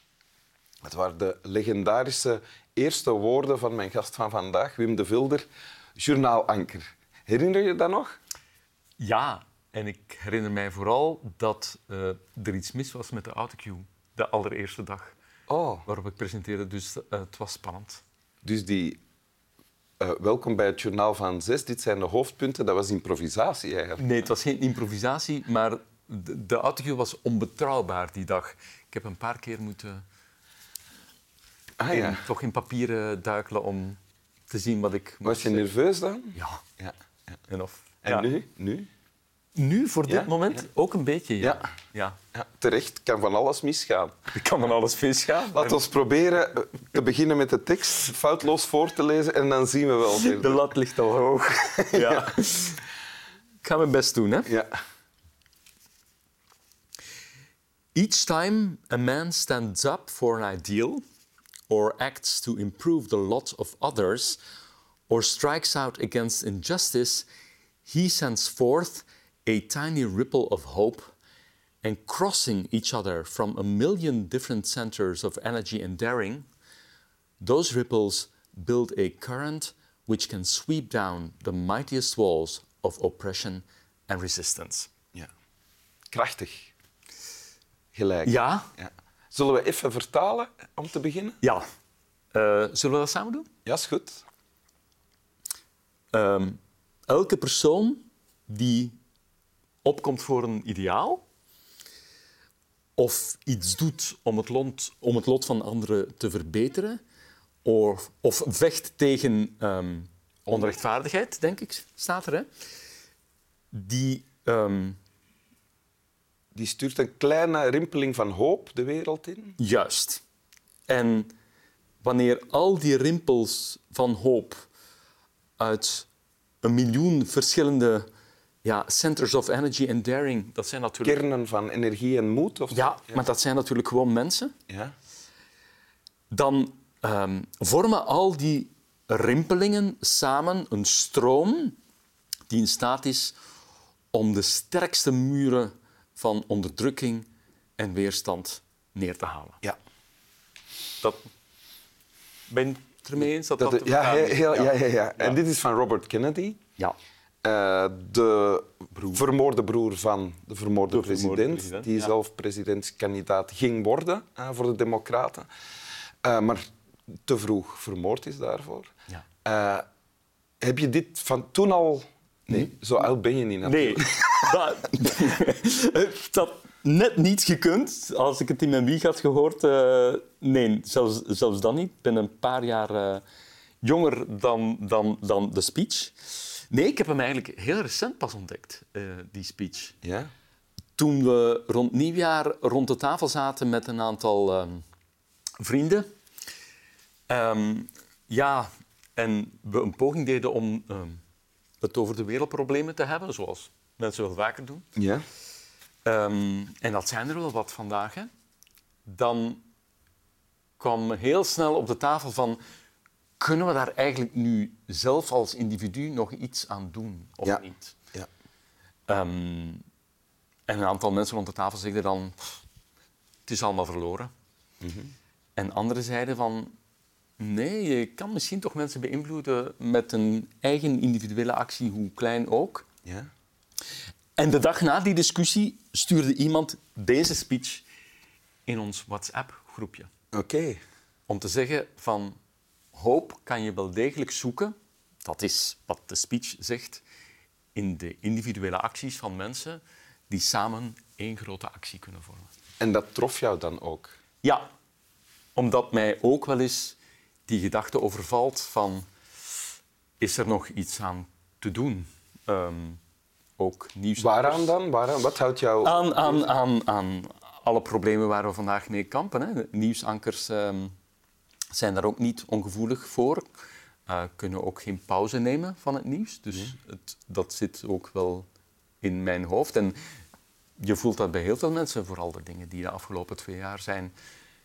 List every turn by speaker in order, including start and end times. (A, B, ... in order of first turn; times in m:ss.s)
0:00.8-0:08.2 A
0:09.0-0:15.1 B
0:15.5-0:15.8 A
0:15.9-0:18.0 B
0:18.4-0:19.0 A
0:20.0-0:24.0 A
0:24.0-0:30.0 B
0:31.8-0:32.2 A
0:31.9-0:35.7 B
0:35.2-0:36.9 A
0:36.4-0:36.6 B
0:37.5-0:38.3 B
0:38.0-0:38.9 A
0:39.6-0:42.2 B
0:40.1-0:40.6 A
0:42.3-0:44.2 A
0:44.3-0:45.8 B
0:45.5-0:50.7 A
0:50.1-0:52.8 B
0:51.9-0:52.3 A
0:53.6-0:54.5 B
0:54.5-0:54.8 A
0:58.0-1:01.0 B
1:01.7-1:04.4 B
1:05.1-1:07.3 B
1:07.8-1:11.2 B
1:11.8-1:16.5 B
1:17.4-1:24.9 B
1:26.1-1:26.7 A
1:27.9-1:31.4 A
1:28.2-1:28.7 B
1:32.3-1:33.5 B
1:33.6-1:34.2 A
1:36.1-1:39.0 B
1:39.8-1:41.2 B
1:43.0-1:47.0 B
1:47.6-1:52.5 B
1:53.7-1:55.0 B
1:56.5-1:59.6 A
1:59.6-2:00.2 B
2:00.9-2:01.3 B
2:02.0-2:04.7 B
2:05.6-2:06.1 B
2:06.6-2:08.1 B
2:08.6-2:11.2 B
2:11.0-2:13.2 A
2:12.7-2:14.5 B
2:14.7-2:14.9 A
2:16.3-2:21.8 B
2:22.5-2:23.4 B
2:24.1-2:27.2 B
2:27.8-2:29.6 B
2:31.0-2:31.3 B
2:32.5-2:35.4 B
2:33.6-2:36.6 A
2:37.4-2:45.5 A
2:38.9-2:39.2 B
2:40.9-2:42.1 B
2:46.2-2:46.6 A
2:47.2-2:48.9 A
2:49.4-2:49.8 A
2:50.6-2:54.5 A
2:53.6-3:03.2 B
3:03.8-3:10.0 B
3:10.0-3:10.3 A
3:11.0-3:14.8 B
3:15.6-3:16.1 B
3:17.3-3:21.2 B
3:21.8-3:24.9 B
3:25.0-3:25.2 A
3:26.0-3:28.3 B
3:29.1-3:29.6 B
3:30.8-3:32.6 B
3:33.4-3:38.0 B
3:39.1-3:39.8 B
3:40.7-3:42.5 B
3:43.5-3:44.3 B
3:44.8-3:45.1 A
3:45.6-3:46.7 B
3:47.4-3:52.9 B
3:54.4-3:57.8 B
3:58.7-4:00.1 B
4:00.3-4:00.8 A
4:01.3-4:02.4 B
4:02.9-4:07.0 B
4:07.8-4:12.5 B
4:12.8-4:14.2 A
4:14.4-4:14.7 B
4:15.6-4:19.0 B
4:20.2-4:23.0 B
4:23.6-4:24.7 B
4:24.2-4:26.5 A
4:25.8-4:30.9 B
4:31.7-4:33.4 B
4:34.1-4:38.4 B
4:39.0-4:40.0 B
4:40.8-4:44.1 B